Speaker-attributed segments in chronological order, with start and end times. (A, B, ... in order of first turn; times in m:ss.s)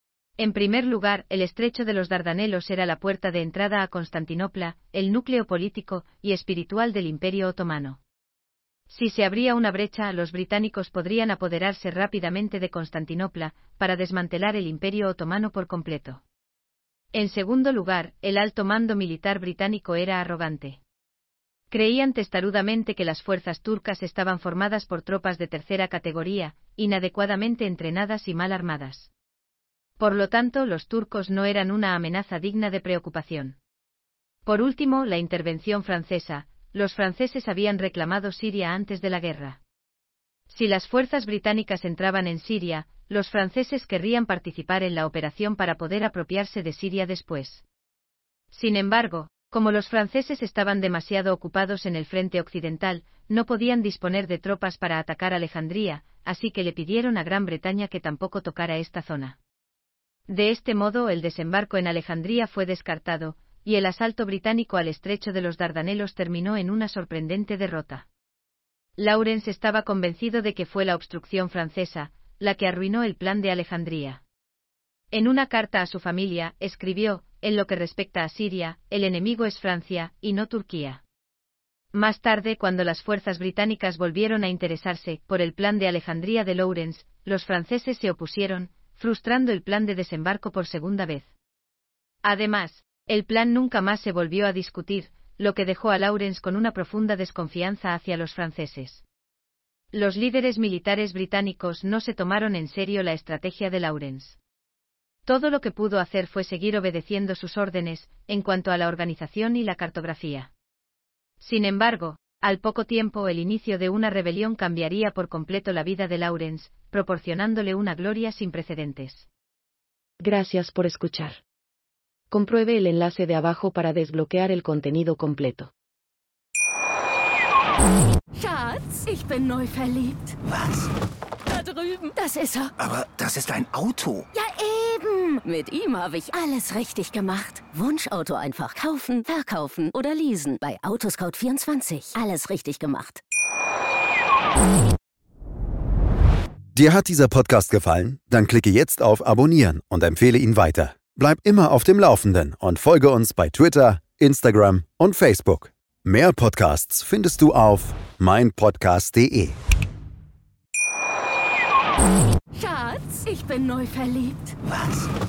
0:00.4-0:08.0 A
0:08.9-0:16.2 A
0:17.1-0:20.8 A
0:21.7-0:29.1 A
0:30.0-0:33.6 A
0:34.4-0:39.6 A
0:40.5-0:47.6 A
0:48.5-0:59.4 A
1:00.3-1:08.0 A
1:09.0-1:14.2 A
1:15.1-1:21.0 A
1:21.9-1:31.3 A
1:32.2-1:39.0 A
1:39.9-1:44.4 A
1:45.2-1:50.5 A
1:51.4-1:59.3 A
2:00.2-2:01.4 B
2:02.3-2:05.7 B
2:08.3-2:10.4 C
2:10.6-2:10.8 D
2:11.5-2:12.7 C
2:12.8-2:14.3 D
2:14.3-2:23.2 C
2:26.7-2:39.6 E
2:42.5-2:44.6 C
2:44.7-2:45.0 D